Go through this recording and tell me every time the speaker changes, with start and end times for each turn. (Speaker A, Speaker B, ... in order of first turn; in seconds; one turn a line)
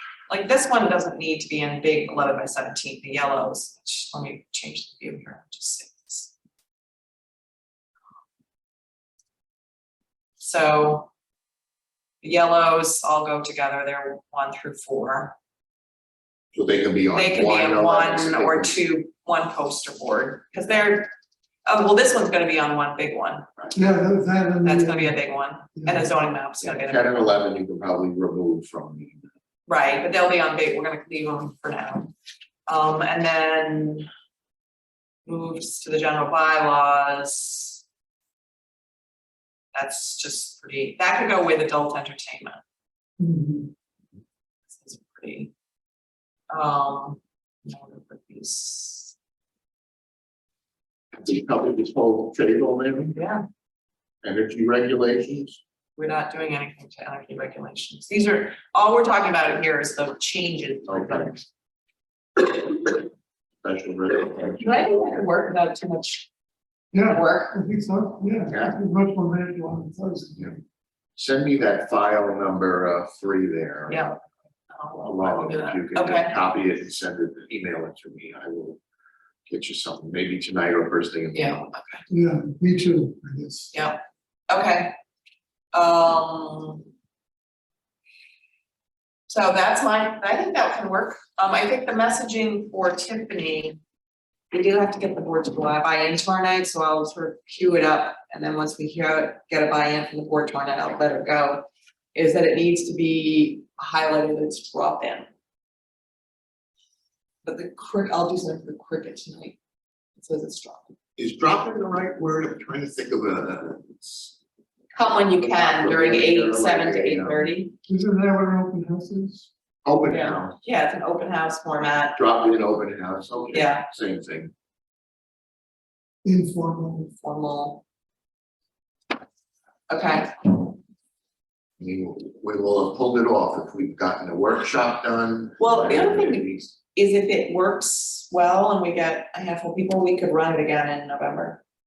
Speaker A: 0.3-6.3
Speaker A: 10.4-11.1
Speaker A: 12.2-15.3
Speaker B: 16.5-18.7
Speaker A: 17.1-21.1
Speaker A: 21.7-23.5
Speaker C: 23.7-25.2
Speaker A: 24.6-27.3
Speaker C: 25.8-26.1
Speaker B: 26.6-29.3
Speaker A: 29.7-32.1
Speaker A: 32.7-34.1
Speaker A: 35.3-37.8
Speaker A: 39.7-42.6
Speaker C: 43.2-43.7
Speaker A: 44.7-45.5
Speaker A: 46.5-49.1
Speaker B: 51.1-53.2
Speaker A: 53.1-53.4
Speaker B: 54.2-55.6
Speaker A: 56.0-61.4
Speaker B: 60.9-61.3
Speaker A: 62.4-62.9
Speaker B: 63.6-64.7
Speaker A: 64.6-66.3
Speaker C: 66.9-70.6
Speaker A: 67.1-67.6
Speaker B: 68.5-68.8
Speaker B: 71.2-74.2
Speaker A: 73.9-74.1
Speaker A: 74.7-76.3
Speaker B: 75.0-78.8
Speaker B: 79.5-81.5
Speaker A: 81.3-82.0
Speaker C: 82.1-83.7
Speaker A: 83.7-85.0
Speaker A: 85.7-86.9
Speaker A: 89.3-93.8
Speaker A: 94.5-105.3
Speaker A: 107.4-109.6
Speaker A: 110.2-111.0
Speaker B: 111.2-114.4
Speaker A: 114.9-117.8
Speaker B: 115.1-117.5
Speaker C: 117.9-119.5
Speaker B: 119.8-120.6
Speaker A: 120.1-122.2
Speaker B: 122.2-124.5
Speaker A: 123.5-123.9
Speaker C: 126.2-127.1
Speaker A: 127.2-127.8
Speaker A: 129.9-130.7
Speaker B: 131.8-136.8
Speaker A: 135.6-141.6